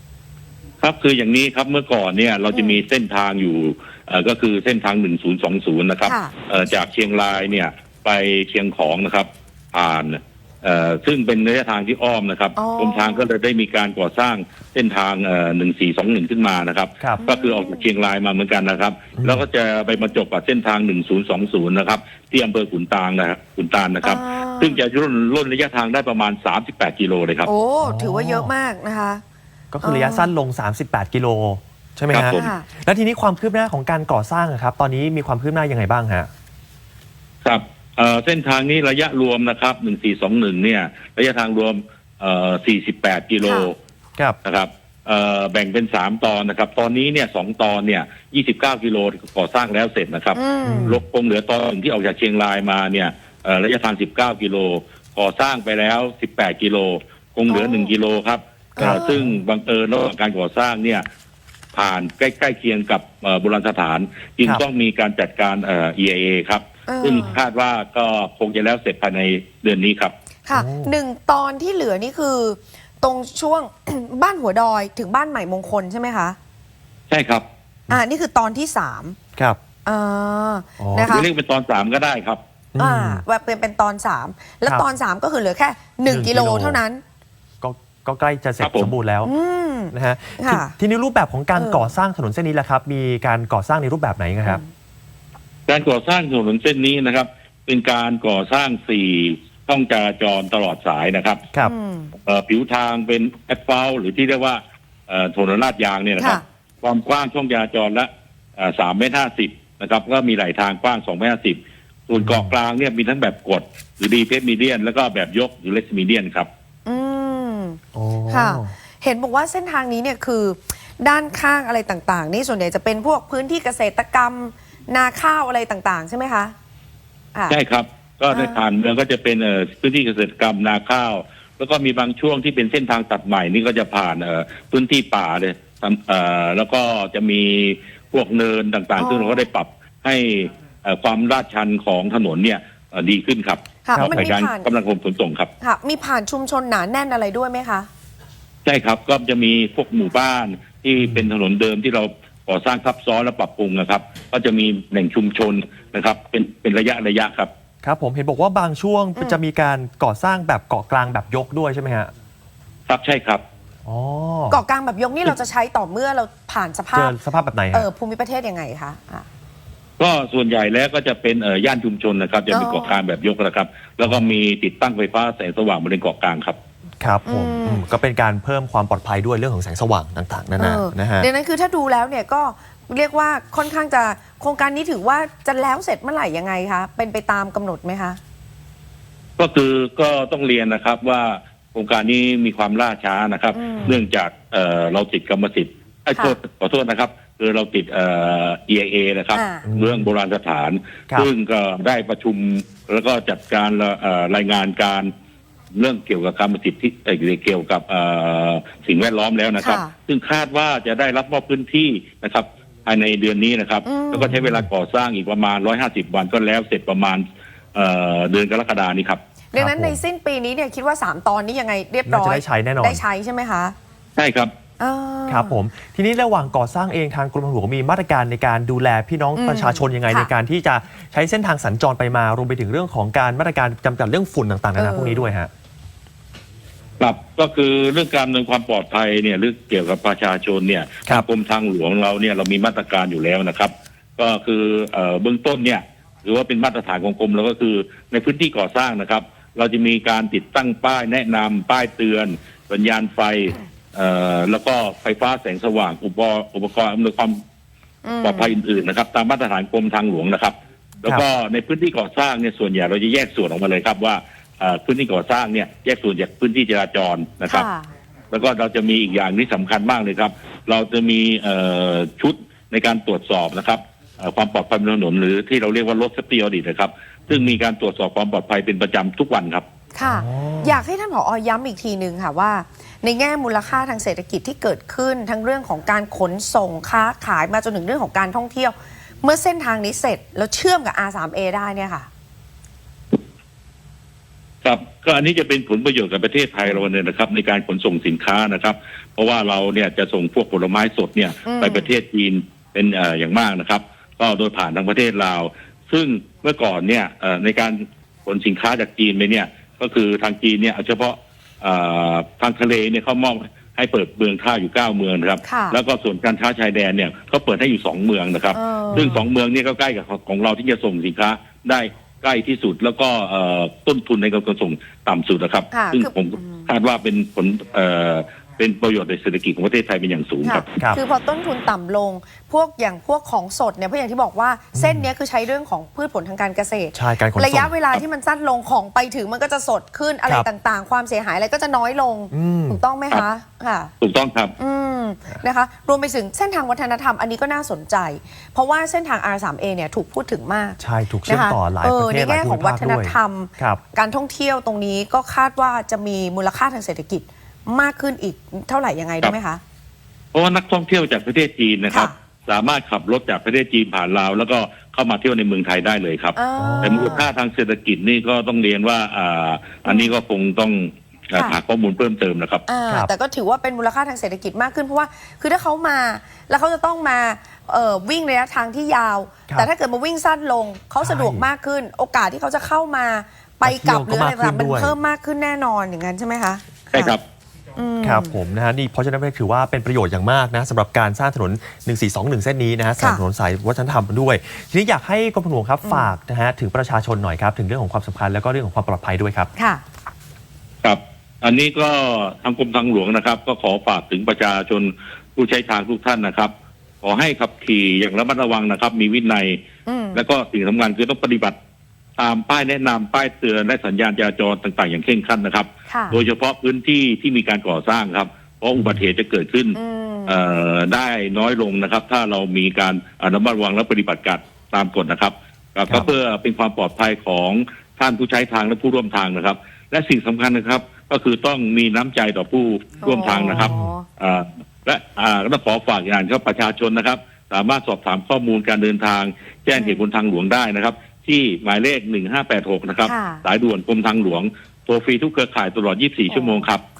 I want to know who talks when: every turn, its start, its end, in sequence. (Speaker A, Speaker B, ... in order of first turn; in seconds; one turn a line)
Speaker A: 0.8-27.5
Speaker B: 2.5-2.8
Speaker B: 6.1-6.3
Speaker B: 12.6-13.3
Speaker B: 17.2-17.8
Speaker B: 24.0-24.8
Speaker B: 27.4-29.2
Speaker C: 27.8-28.5
Speaker C: 29.7-36.3
Speaker B: 29.8-30.3
Speaker A: 32.1-32.5
Speaker B: 32.3-32.7
Speaker A: 37.5-43.8
Speaker B: 43.4-43.7
Speaker A: 44.4-61.1
Speaker B: 50.3-50.9
Speaker C: 50.6-51.0
Speaker B: 57.5-57.9
Speaker B: 58.8-59.2
Speaker C: 58.8-59.3
Speaker A: 61.7-70.1
Speaker B: 66.9-67.4
Speaker B: 70.5-76.4
Speaker C: 70.5-70.9
Speaker A: 77.1-77.5
Speaker B: 77.9-79.2
Speaker B: 79.9-81.3
Speaker C: 80.8-81.1
Speaker A: 81.1-82.4
Speaker C: 82.7-83.2
Speaker B: 82.8-87.0
Speaker C: 86.1-86.8
Speaker C: 87.6-89.3
Speaker A: 88.6-88.9
Speaker B: 89.2-90.8
Speaker C: 89.9-94.6
Speaker B: 91.5-91.9
Speaker A: 95.7-101.4
Speaker B: 101.6-102.1
Speaker A: 102.2-116.5
Speaker C: 112.2-112.5
Speaker B: 116.8-126.5
Speaker C: 117.9-118.7
Speaker A: 127.5-145.5
Speaker B: 128.3-128.6
Speaker B: 139.0-139.4
Speaker B: 143.8-144.7
Speaker C: 143.9-144.2
Speaker B: 145.6-147.9
Speaker A: 148.6-157.5
Speaker C: 151.0-151.3
Speaker C: 157.8-162.1
Speaker A: 162.9-163.4
Speaker C: 163.9-164.6
Speaker B: 164.5-167.1
Speaker C: 166.9-167.9
Speaker B: 167.7-169.2
Speaker A: 170.0-176.6
Speaker B: 172.5-173.0
Speaker C: 177.0-181.3
Speaker B: 177.2-177.8
Speaker B: 180.6-188.2
Speaker A: 189.4-205.1
Speaker B: 193.5-194.0
Speaker B: 199.3-199.7
Speaker C: 199.7-200.1
Speaker A: 205.7-219.2
Speaker B: 209.6-209.9
Speaker B: 213.8-214.3
Speaker C: 214.3-214.7
Speaker B: 219.5-223.8
Speaker C: 219.6-220.0
Speaker C: 222.1-223.0
Speaker A: 224.2-224.5
Speaker B: 224.8-225.6
Speaker C: 225.3-235.5
Speaker B: 229.3-230.3
Speaker B: 234.8-235.3
Speaker A: 237.0-257.4
Speaker B: 258.0-258.6
Speaker A: 258.2-267.7
Speaker B: 267.5-267.9
Speaker A: 268.3-279.7
Speaker B: 279.9-292.1
Speaker C: 280.0-280.8
Speaker A: 294.6-330.7
Speaker B: 301.4-301.9
Speaker B: 315.4-315.8
Speaker B: 318.5-319.2
Speaker C: 318.9-319.2
Speaker B: 325.7-326.7
Speaker B: 330.4-343.9
Speaker C: 334.8-335.1
Speaker C: 336.9-337.7
Speaker C: 342.3-342.8
Speaker A: 344.0-344.5
Speaker B: 344.6-359.6
Speaker C: 350.8-353.8
Speaker A: 360.3-372.6
Speaker B: 361.9-362.1
Speaker B: 366.4-367.2
Speaker C: 366.6-367.2
Speaker B: 372.7-387.1
Speaker C: 381.0-381.5
Speaker C: 383.6-384.9
Speaker A: 386.9-387.2
Speaker B: 387.8-388.3
Speaker C: 388.0-399.5
Speaker B: 395.8-396.1
Speaker B: 399.6-399.8
Speaker A: 400.8-409.6
Speaker B: 409.9-410.2
Speaker A: 410.1-411.6
Speaker A: 412.2-446.8
Speaker B: 415.9-416.1
Speaker C: 418.8-419.0
Speaker B: 419.7-420.4
Speaker B: 433.0-434.1
Speaker C: 433.5-433.9
Speaker B: 439.7-440.0
Speaker B: 443.0-443.4
Speaker B: 446.3-446.7